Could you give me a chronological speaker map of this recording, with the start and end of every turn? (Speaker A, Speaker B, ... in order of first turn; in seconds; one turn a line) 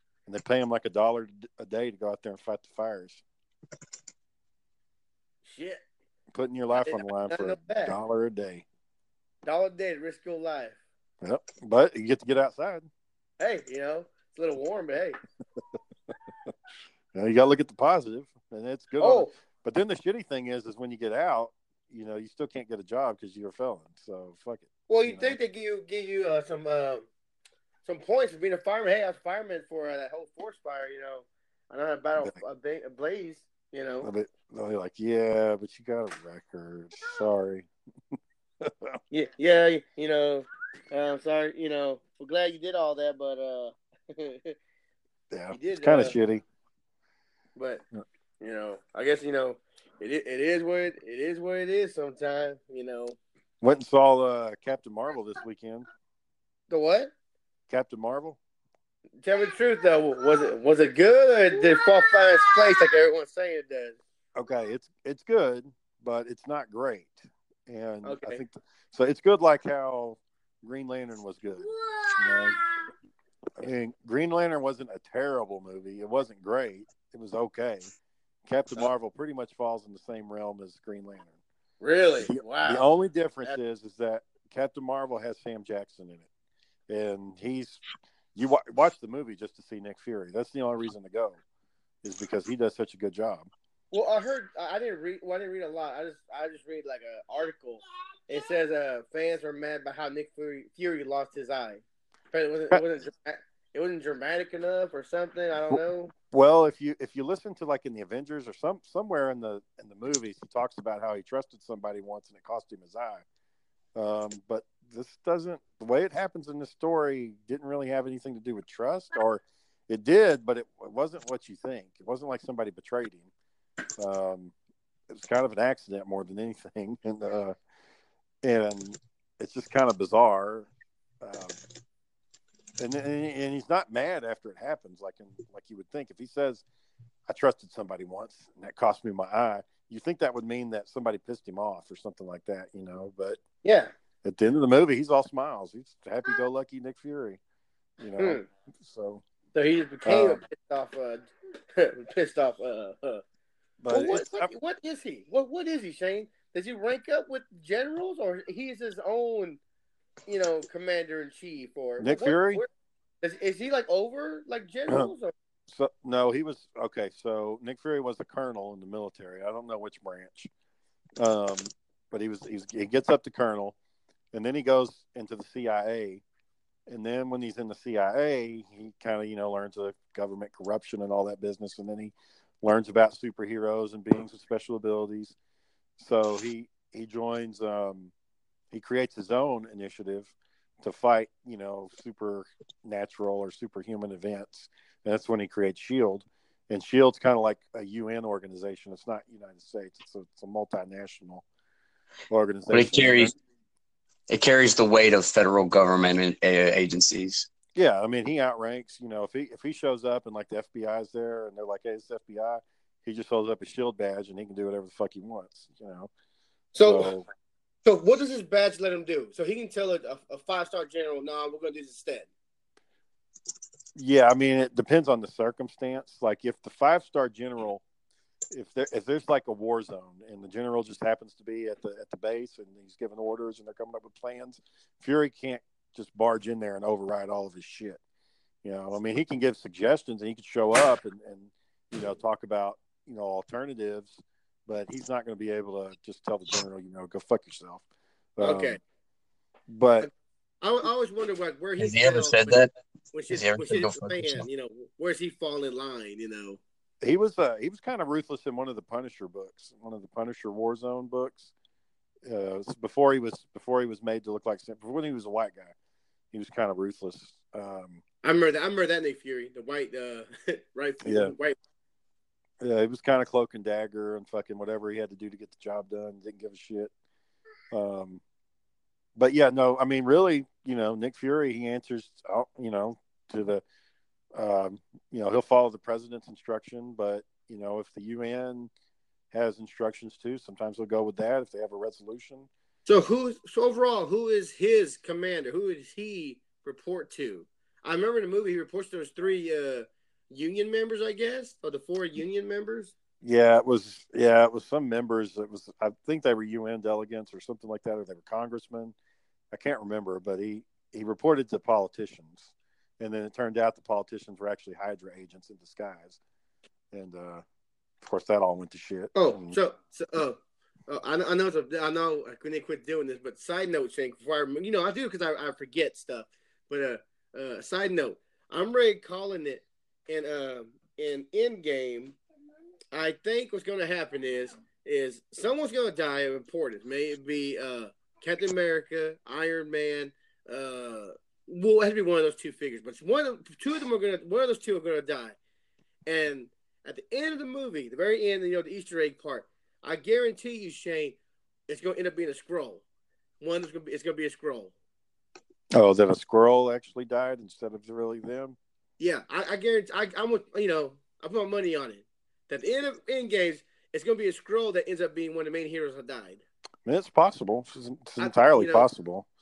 Speaker A: 0.3-3.2
Speaker B: 5.4-5.8
Speaker A: 6.3-8.6
Speaker B: 6.7-7.9
Speaker B: 9.4-10.8
Speaker A: 11.2-12.9
Speaker B: 13.4-15.2
Speaker A: 17.1-25.4
Speaker B: 19.0-19.3
Speaker B: 24.9-27.1
Speaker B: 27.8-34.1
Speaker A: 34.0-37.7
Speaker A: 38.6-39.0
Speaker B: 39.1-44.5
Speaker A: 45.3-46.4
Speaker B: 45.5-46.1
Speaker B: 47.5-47.8
Speaker B: 48.4-53.2
Speaker A: 53.6-55.8
Speaker B: 56.7-57.1
Speaker A: 57.7-58.4
Speaker B: 59.2-64.0
Speaker A: 64.3-72.6
Speaker B: 68.0-68.4
Speaker A: 73.6-77.9
Speaker A: 78.5-81.3
Speaker B: 81.8-82.8
Speaker A: 82.3-86.3
Speaker A: 86.9-87.8
Speaker A: 88.3-91.4
Speaker A: 92.0-93.5
Speaker B: 93.9-106.1
Speaker A: 105.7-113.2
Speaker A: 114.0-123.3
Speaker A: 124.0-124.5
Speaker A: 125.1-127.5
Speaker A: 128.4-130.7
Speaker A: 131.2-131.6
Speaker A: 132.8-136.6
Speaker A: 137.3-143.4
Speaker B: 143.6-143.9
Speaker A: 144.2-147.4
Speaker A: 148.0-149.2
Speaker B: 148.2-148.4
Speaker B: 149.5-153.2
Speaker A: 150.0-150.4
Speaker A: 153.8-154.5
Speaker B: 153.9-159.6
Speaker B: 160.3-162.7
Speaker A: 162.0-162.6
Speaker B: 163.2-165.3
Speaker A: 165.7-170.5
Speaker A: 171.2-173.8
Speaker A: 174.3-176.2
Speaker A: 176.9-185.3
Speaker A: 186.0-188.1
Speaker A: 188.7-201.4
Speaker A: 202.3-203.3
Speaker C: 202.7-203.3
Speaker C: 204.3-207.5
Speaker A: 207.7-216.1
Speaker B: 216.7-217.1
Speaker A: 216.8-217.2
Speaker B: 217.8-222.3
Speaker A: 223.9-227.8
Speaker A: 228.5-238.0
Speaker A: 238.6-247.8
Speaker A: 248.4-248.8
Speaker B: 248.4-248.8
Speaker A: 249.7-250.1
Speaker B: 250.6-256.6
Speaker C: 251.8-252.7
Speaker C: 253.3-254.4
Speaker A: 257.0-261.5
Speaker A: 262.2-265.7
Speaker A: 266.3-268.0
Speaker B: 268.2-271.6
Speaker A: 271.0-271.3
Speaker A: 272.6-276.9
Speaker A: 277.7-278.2
Speaker A: 279.1-283.6
Speaker A: 284.4-288.7
Speaker A: 289.3-292.5
Speaker B: 292.9-302.9
Speaker A: 303.2-308.9
Speaker A: 309.5-316.2
Speaker A: 316.9-317.4
Speaker A: 318.0-319.6
Speaker B: 319.1-332.2
Speaker B: 332.9-345.4
Speaker B: 346.1-352.8
Speaker B: 353.4-354.7
Speaker A: 355.7-358.6
Speaker B: 359.0-366.4
Speaker A: 366.9-369.2
Speaker B: 368.2-368.9